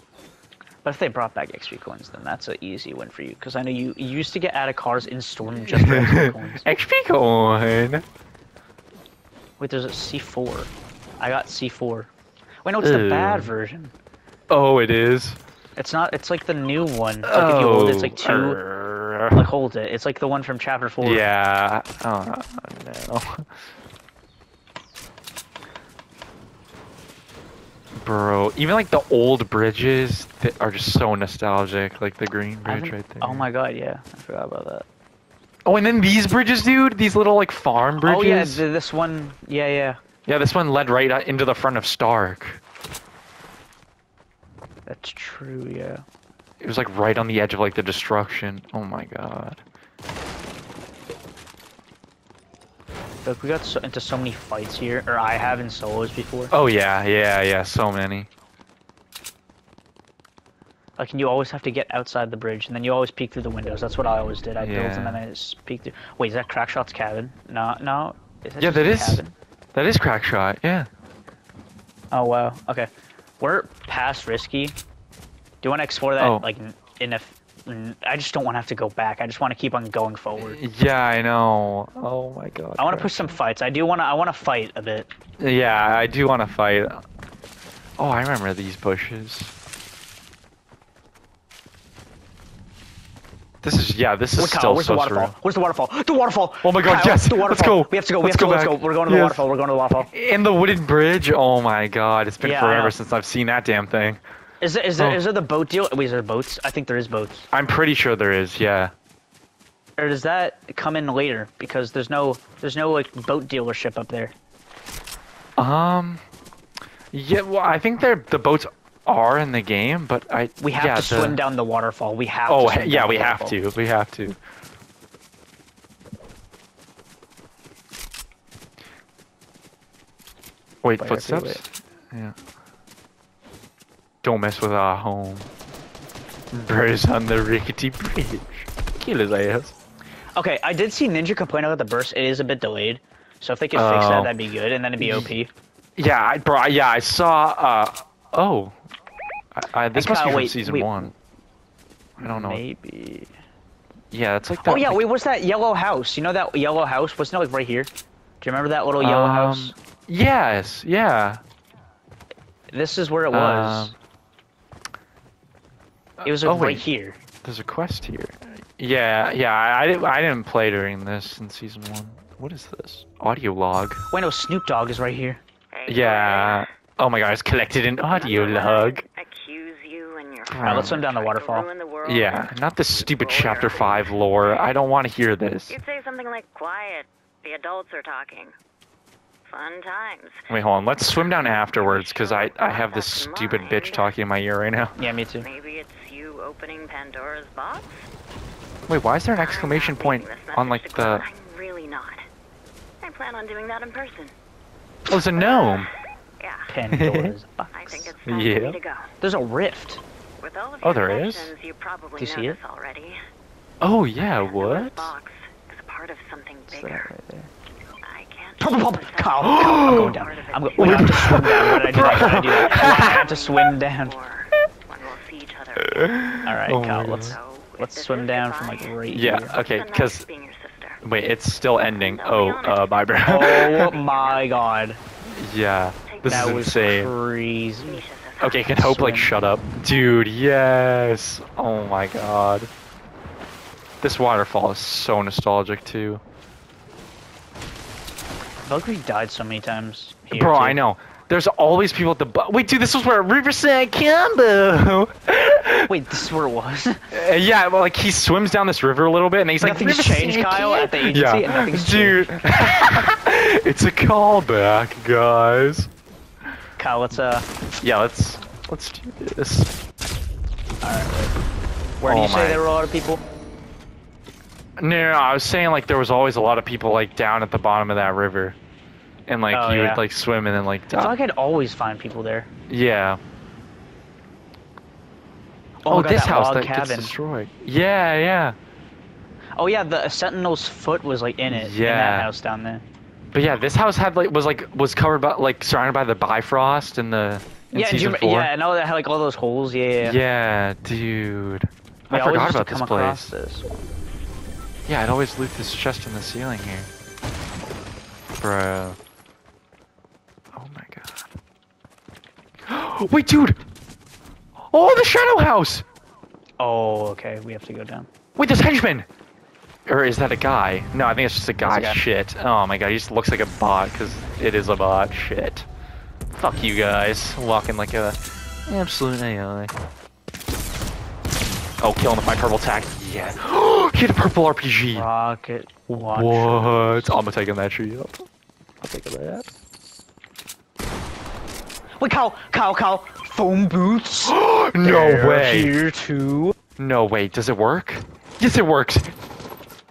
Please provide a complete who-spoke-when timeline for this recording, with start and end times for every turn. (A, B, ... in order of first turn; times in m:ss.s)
0:00.8-0:06.6 A
0:05.5-0:08.0 B
0:09.6-0:12.1 A
0:12.6-0:13.9 A
0:12.8-0:13.5 B
0:14.5-0:15.4 B
0:15.8-0:18.6 A
0:17.2-0:19.5 B
0:19.3-0:21.2 A
0:21.0-0:23.5 B
0:28.0-0:33.5 B
0:32.6-0:34.8 A
0:35.6-0:38.6 B
0:38.0-0:40.0 A
0:40.2-0:42.6 B
0:44.8-0:46.0 A
0:46.6-0:49.6 B
0:53.2-0:56.5 A
0:56.5-0:58.3 B
1:01.0-1:09.3 A
1:04.6-1:05.2 B
1:08.6-1:09.2 B
1:09.7-1:10.9 B
1:12.1-1:14.8 A
1:15.6-1:20.6 A
1:16.2-1:16.5 B
1:20.4-1:23.4 B
1:22.8-1:25.1 A
1:25.4-1:27.0 B
1:28.0-1:29.5 B
1:33.6-1:35.3 B
1:34.4-1:40.1 A
1:36.6-1:39.4 B
1:40.1-1:44.2 B
1:42.4-1:43.0 A
1:44.6-1:47.4 A
1:45.0-1:45.2 B
1:47.5-1:48.9 B
1:50.0-1:54.3 A
1:55.6-1:56.2 B
1:57.1-2:01.4 B
2:00.6-2:03.6 A
2:02.5-2:04.4 B
2:10.8-2:12.4 B
2:11.0-2:11.6 A
2:14.2-2:15.5 B
2:16.6-2:19.7 B
2:20.4-2:25.5 A
2:23.7-2:24.4 B
2:25.0-2:25.3 B
2:26.0-2:28.8 B
2:29.5-2:31.1 B
2:29.9-2:31.1 A
2:32.2-2:33.3 A
2:32.2-2:32.6 B
2:34.1-2:35.0 B
2:34.6-2:37.9 A
2:38.4-2:39.8 A
2:39.0-2:41.4 B
2:42.7-2:43.9 A
2:43.3-2:43.9 B
2:46.2-2:46.9 B
2:46.2-2:47.2 A
2:47.4-2:54.0 B
2:54.1-2:55.4 A
2:55.7-2:56.7 C
2:55.9-2:59.0 B
2:58.1-3:04.7 C
3:00.4-3:01.0 B
3:00.6-3:01.7 A
3:02.0-3:05.8 B
3:05.7-3:08.5 C
3:09.5-3:10.5 C
3:10.5-3:15.0 B
3:11.1-3:14.1 C
3:15.0-3:15.5 A
3:15.4-3:17.9 C
3:18.9-3:21.2 B
3:19.4-3:22.2 C
3:23.0-3:24.3 C
3:25.0-3:25.9 B
3:25.3-3:26.7 C
3:26.7-3:28.1 A
3:26.9-3:27.4 B
3:27.7-3:29.1 C
3:28.2-3:28.8 B
3:29.2-3:30.0 A
3:30.4-3:33.2 C
3:30.8-3:31.5 B
3:32.2-3:32.6 A
3:33.8-3:35.1 B
3:34.2-3:37.1 C
3:36.7-3:37.5 A
3:38.0-3:49.0 C
3:38.6-3:44.1 A
3:39.4-3:40.2 B
3:40.8-3:43.3 B
3:45.8-3:47.4 B
3:46.4-3:49.6 A
3:49.1-3:50.2 B
3:49.5-3:51.0 C
3:51.0-3:54.0 B
3:51.8-3:54.6 C
3:53.2-3:55.0 A
3:55.3-3:57.1 B
3:56.0-3:56.8 C
3:56.2-3:58.0 A
3:57.8-3:58.8 C
3:58.4-4:02.7 B
3:58.7-3:59.3 A
3:59.9-4:00.2 C
4:04.0-4:06.2 B
4:08.6-4:10.8 A
4:10.3-4:16.0 B
4:15.8-4:17.0 A
4:17.1-4:25.9 B
4:19.6-4:22.4 A
4:26.8-4:27.5 A
4:27.8-4:29.7 B
4:30.8-4:31.3 A
4:32.0-4:33.2 A
4:32.0-4:32.6 B
4:34.8-4:38.6 B
4:39.3-4:41.1 B
4:39.5-4:40.0 A
4:40.9-4:42.5 A
4:42.7-4:43.2 B
4:45.8-4:47.1 A
4:45.9-4:48.6 B
4:49.6-4:52.8 A
4:51.5-4:52.3 B
4:53.3-4:58.5 B
4:57.7-5:00.2 A
5:00.0-5:03.3 B
5:02.1-5:03.6 A
5:04.8-5:06.9 B
5:08.4-5:09.0 B
5:10.5-5:11.3 B
5:12.6-5:13.6 B
5:14.6-5:15.8 B
5:16.6-5:18.1 A
5:18.4-5:19.1 B
5:19.8-5:25.7 B
5:21.6-5:22.0 A
5:26.4-5:29.7 B
5:31.8-5:35.0 B
5:34.9-5:37.2 A
5:35.9-5:38.3 B
5:38.8-5:39.5 B
5:42.0-5:46.6 A
5:44.2-5:45.8 B
5:46.8-5:49.1 B